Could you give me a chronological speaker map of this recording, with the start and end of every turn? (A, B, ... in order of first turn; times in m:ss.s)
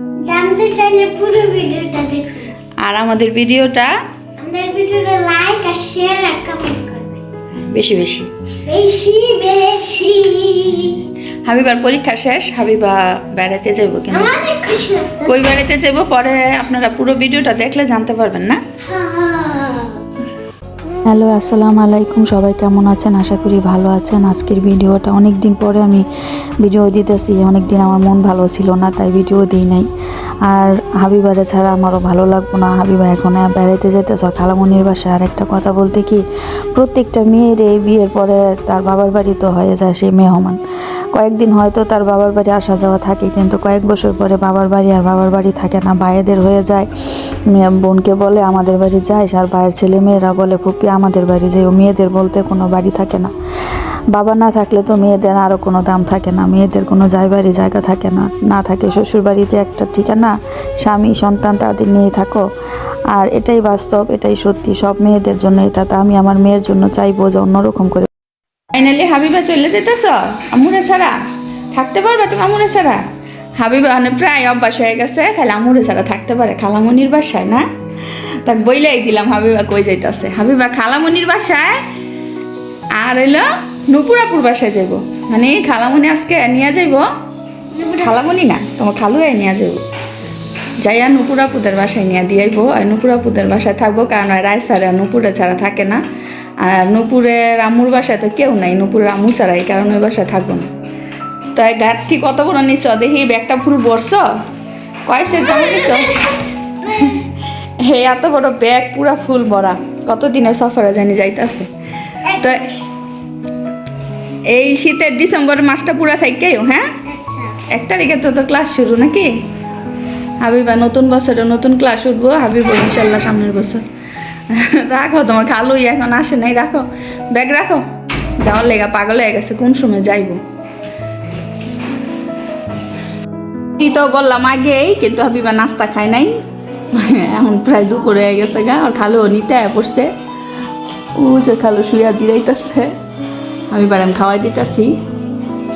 0:00.2-0:02.5 A
0:02.8-0:03.9 B
0:04.4-0:07.2 A
0:07.6-0:08.3 B
0:08.7-0:11.0 A
0:11.4-0:14.4 B
0:14.1-0:15.4 A
0:15.2-0:18.6 B
0:18.8-0:20.0 A
0:21.1-0:26.0 C
0:26.6-0:29.8 C
0:30.5-0:36.2 C
0:36.8-0:40.6 C
0:41.1-0:46.8 C
0:47.5-0:53.3 C
0:48.7-0:49.0 B
0:54.2-1:00.3 C
0:55.6-0:55.8 B
1:00.9-1:02.4 C
1:03.2-1:08.1 C
1:08.7-1:11.2 B
1:11.7-1:13.0 B
1:13.6-1:17.6 B
1:18.4-1:21.8 B
1:23.0-1:27.0 B
1:27.7-1:28.2 A
1:28.0-1:29.8 B
1:30.8-1:36.0 B
1:36.6-1:40.7 B
1:41.5-1:44.2 B
1:45.1-1:46.3 B
1:45.3-1:47.2 A
1:46.8-1:47.3 B
1:47.8-1:51.7 B
1:52.2-1:52.8 A
1:52.2-1:52.7 B
1:54.5-1:56.9 B
1:57.0-1:57.6 A
1:57.7-1:59.3 B
2:00.4-2:03.8 B
2:04.5-2:07.9 B
2:08.4-2:10.4 B
2:13.8-2:16.3 B
2:16.9-2:20.1 B
2:21.2-2:22.9 B
2:23.7-2:24.9 B